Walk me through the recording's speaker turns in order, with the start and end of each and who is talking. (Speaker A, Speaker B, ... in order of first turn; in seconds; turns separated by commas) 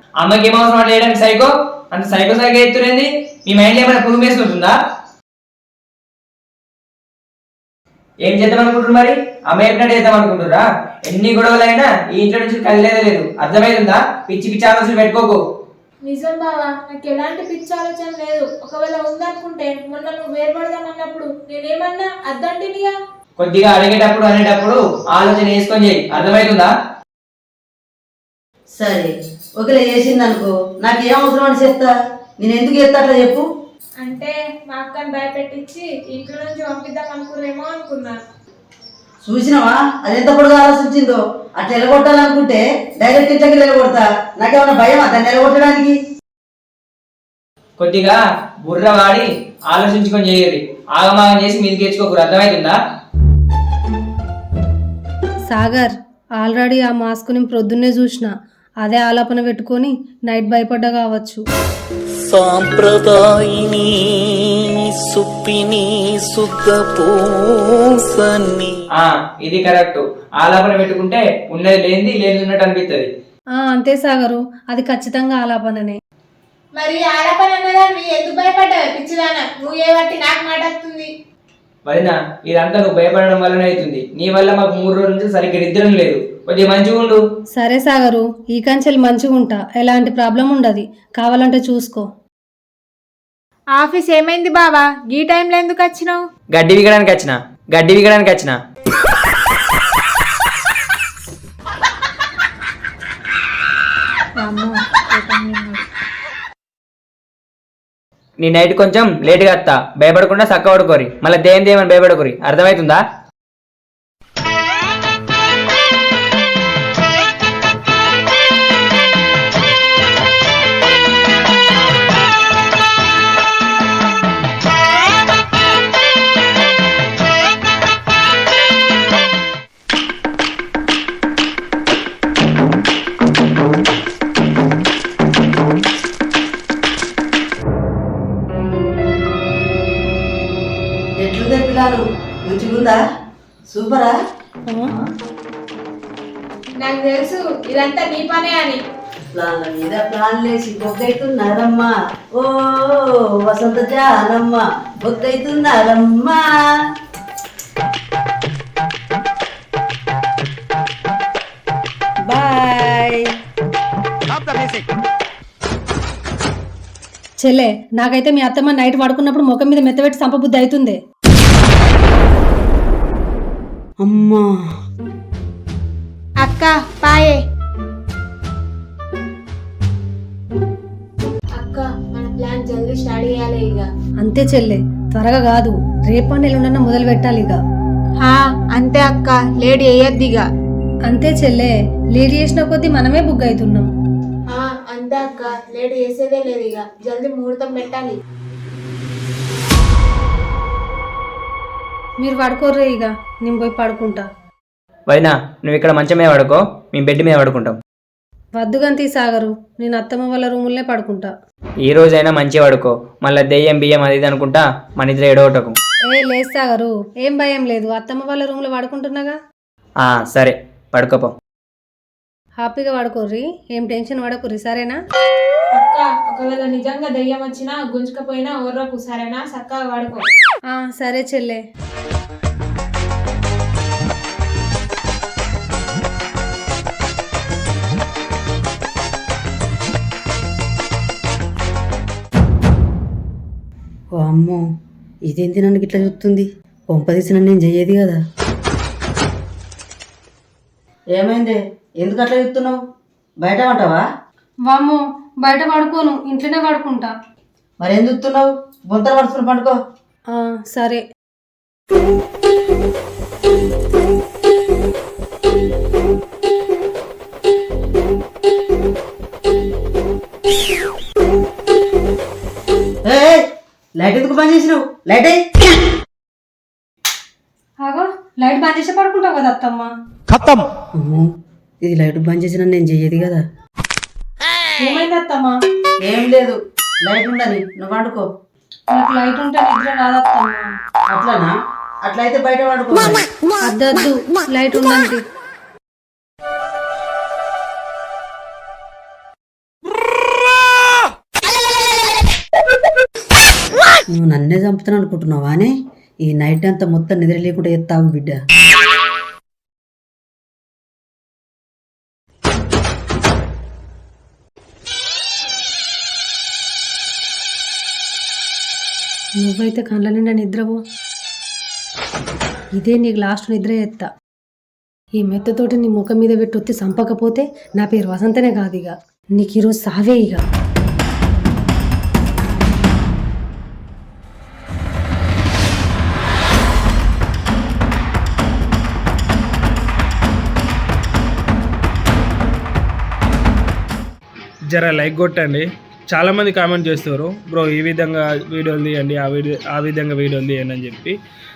Speaker A: 0.2-4.8, Speaker A: 8.2-15.4, Speaker B: 16.1-22.9, Speaker A: 23.4-26.7, Speaker C: 28.8-33.4, Speaker B: 34.0-38.2, Speaker C: 39.2-46.0, Speaker A: 47.8-52.8, Speaker D: 55.5-58.3, Speaker D: 58.8-61.4, Speaker E: 62.3-68.8, Speaker A: 68.9-73.1, Speaker D: 73.6-76.0, Speaker B: 76.8-81.1, Speaker A: 81.9-87.2, Speaker D: 87.5-92.1, Speaker B: 93.8-96.2, Speaker A: 96.5-98.5, Speaker A: 108.4-113.0, Speaker C: 141.2-143.0, Speaker C: 143.7-144.1, Speaker D: 144.7-144.9, Speaker B: 146.8-148.8, Speaker C: 149.3-156.4, Speaker C: 162.3-163.2, Speaker D: 167.4-171.0, Speaker C: 174.0-174.5, Speaker B: 176.4-177.4, Speaker B: 181.6-183.9, Speaker D: 184.2-187.6, Speaker B: 188.2-190.4, Speaker D: 191.1-193.9, Speaker B: 194.5-198.2, Speaker D: 202.2-204.3, Speaker A: 205.1-207.8, Speaker D: 208.6-211.3, Speaker A: 211.8-215.8, Speaker D: 216.1-219.4, Speaker A: 220.0-221.3, Speaker D: 222.6-225.0, Speaker B: 225.7-230.2, Speaker D: 230.7-231.6, Speaker C: 244.2-244.6, Speaker C: 245.3-248.2, Speaker C: 251.1-252.8, Speaker C: 253.4-254.0, Speaker D: 254.7-257.1, Speaker C: 257.8-259.8, Speaker D: 260.3-261.0, Speaker C: 273.1-273.4, Speaker C: 274.0-275.4, Speaker D: 277.8-279.9, Speaker C: 280.9-281.3, Speaker C: 281.8-283.4, Speaker D: 284.8-285.6, Speaker C: 286.0-288.2, Speaker D: 288.9-290.7, Speaker C: 291.1-291.5, Speaker C: 292.1-293.2, Speaker D: 293.6-295.2, Speaker C: 304.1-305.7, Speaker C: 306.2-308.4, Speaker D: 319.4-320.8, Speaker D: 322.8-324.1, Speaker D: 325.2-330.4, Speaker F: 344.7-351.1